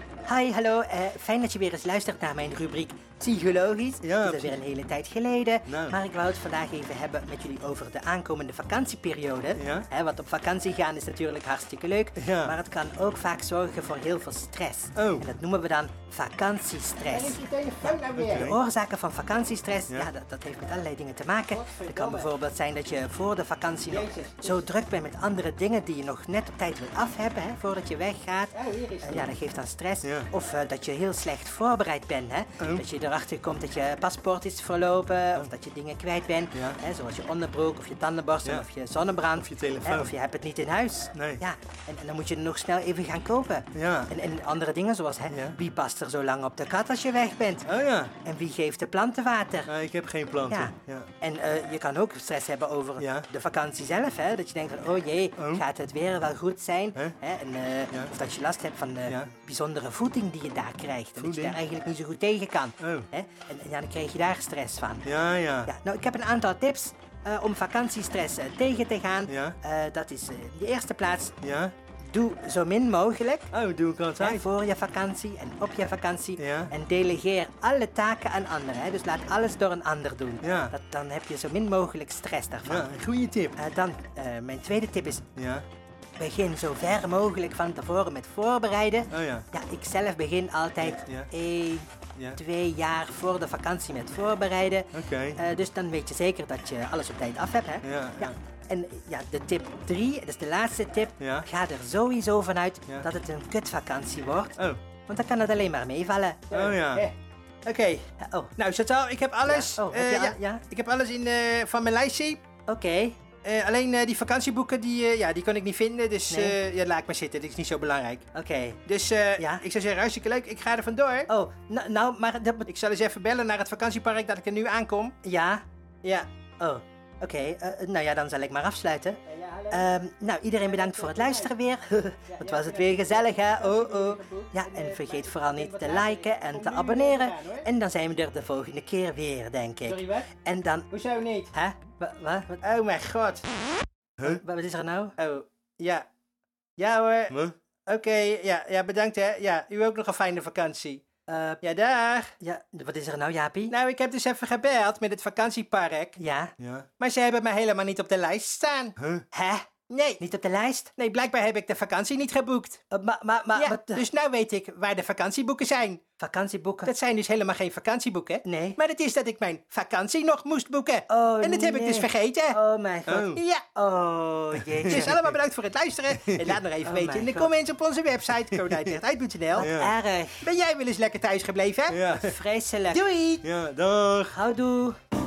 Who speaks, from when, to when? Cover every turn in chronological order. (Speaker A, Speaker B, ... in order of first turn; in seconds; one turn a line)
Speaker A: 0.2-47.6
Speaker B: 4.0-4.6
Speaker B: 5.7-6.0
Speaker B: 9.6-9.9
Speaker B: 12.2-12.5
Speaker B: 14.9-15.3
Speaker C: 17.1-18.5
Speaker B: 18.1-18.6
Speaker C: 21.5-22.3
Speaker C: 23.9-24.6
Speaker C: 28.5-29.3
Speaker B: 30.0-30.3
Speaker B: 32.6-32.8
Speaker B: 39.4-40.1
Speaker B: 41.1-41.4
Speaker B: 43.7-44.1
Speaker B: 45.3-45.6
Speaker B: 47.6-48.1
Speaker A: 48.2-49.7
Speaker B: 49.6-51.1
Speaker A: 50.5-65.1
Speaker B: 53.0-53.3
Speaker B: 55.4-55.6
Speaker B: 61.2-61.6
Speaker B: 62.8-63.1
Speaker B: 65.0-65.7
Speaker A: 65.7-71.3
Speaker B: 69.3-69.6
Speaker B: 71.4-71.7
Speaker A: 72.0-73.5
Speaker B: 73.5-74.4
Speaker A: 74.2-82.9
Speaker B: 76.4-76.7
Speaker B: 80.4-80.7
Speaker B: 82.6-83.5
Speaker A: 83.6-85.2
Speaker B: 85.4-85.7
Speaker A: 86.2-106.5
Speaker B: 89.1-89.5
Speaker B: 90.8-91.3
Speaker B: 94.9-95.4
Speaker B: 97.8-98.3
Speaker B: 101.2-101.5
Speaker C: 106.5-107.1
Speaker B: 106.5-107.1
Speaker C: 107.6-108.0
Speaker A: 108.2-108.5
Speaker C: 108.6-112.4
Speaker A: 109.4-110.6
Speaker A: 112.7-113.2
Speaker C: 113.4-118.3
Speaker A: 118.3-118.8
Speaker C: 118.9-121.3
Speaker A: 119.4-119.6
Speaker A: 121.3-122.7
Speaker C: 122.7-125.1
Speaker A: 125.2-125.6
Speaker A: 126.6-129.2
Speaker C: 129.3-130.0
Speaker A: 129.7-140.9
Speaker C: 130.6-131.5
Speaker C: 132.3-137.7
Speaker C: 139.8-140.3
Speaker C: 140.9-141.5
Speaker A: 141.5-142.6
Speaker C: 142.6-143.5
Speaker A: 144.2-145.1
Speaker C: 145.2-146.1
Speaker C: 146.8-147.3
Speaker C: 147.9-151.0
Speaker A: 151.3-151.6
Speaker C: 151.6-152.3
Speaker A: 152.4-153.7
Speaker C: 153.7-156.2
Speaker A: 156.2-156.5
Speaker B: 156.6-156.9
Speaker C: 157.0-158.9
Speaker B: 159.0-159.2
Speaker A: 159.3-159.7
Speaker C: 159.9-160.2
Speaker A: 160.2-160.9
Speaker C: 161.0-162.8
Speaker A: 162.9-164.0
Speaker C: 163.6-166.0
Speaker A: 166.2-166.9
Speaker C: 166.8-172.6
Speaker A: 168.4-168.8
Speaker A: 171.1-175.2
Speaker C: 173.1-173.6
Speaker B: 173.1-173.4
Speaker B: 174.7-175.3
Speaker C: 174.9-179.7
Speaker B: 176.2-176.6
Speaker A: 176.8-177.5
Speaker B: 178.6-178.9
Speaker A: 179.6-180.4
Speaker B: 179.6-179.9
Speaker C: 180.4-182.0
Speaker B: 181.9-182.3
Speaker A: 182.1-183.0
Speaker C: 182.9-183.4
Speaker B: 183.4-184.4
Speaker A: 184.3-185.0